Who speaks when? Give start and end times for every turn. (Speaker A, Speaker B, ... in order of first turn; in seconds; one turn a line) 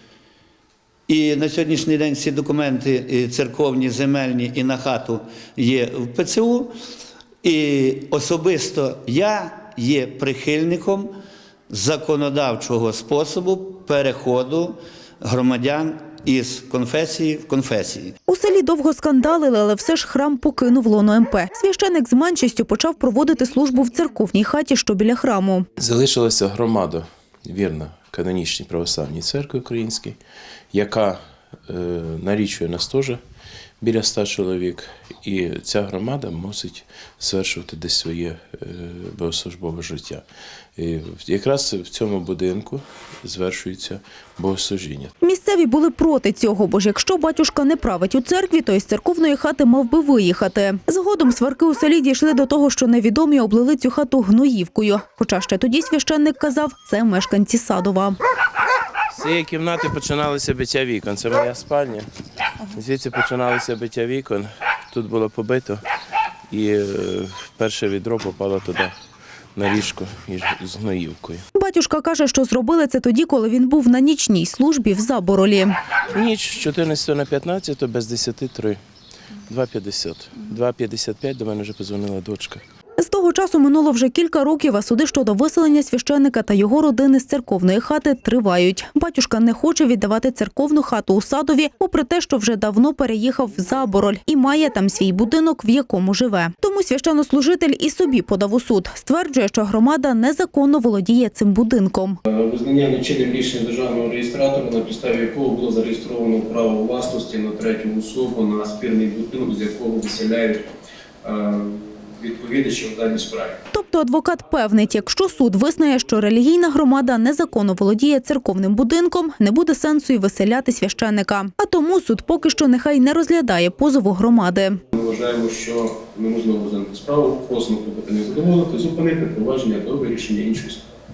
Speaker A: 1.1-6.7
Speaker A: 7.4-11.1
Speaker A: 11.7-18.1
Speaker B: 18.3-25.7
Speaker C: 25.8-30.2
Speaker C: 30.7-33.2
Speaker C: 33.8-40.2
Speaker C: 40.8-45.1
Speaker B: 45.2-58.2
Speaker C: 59.1-62.1
Speaker C: 62.7-65.8
Speaker C: 66.5-68.9
Speaker C: 69.5-71.4
Speaker B: 71.5-75.7
Speaker C: 76.1-78.8
Speaker C: 79.5-82.6
Speaker B: 83.0-102.2
Speaker D: 102.3-110.6
Speaker D: 111.2-113.6
Speaker B: 113.7-124.8
Speaker D: 124.9-130.8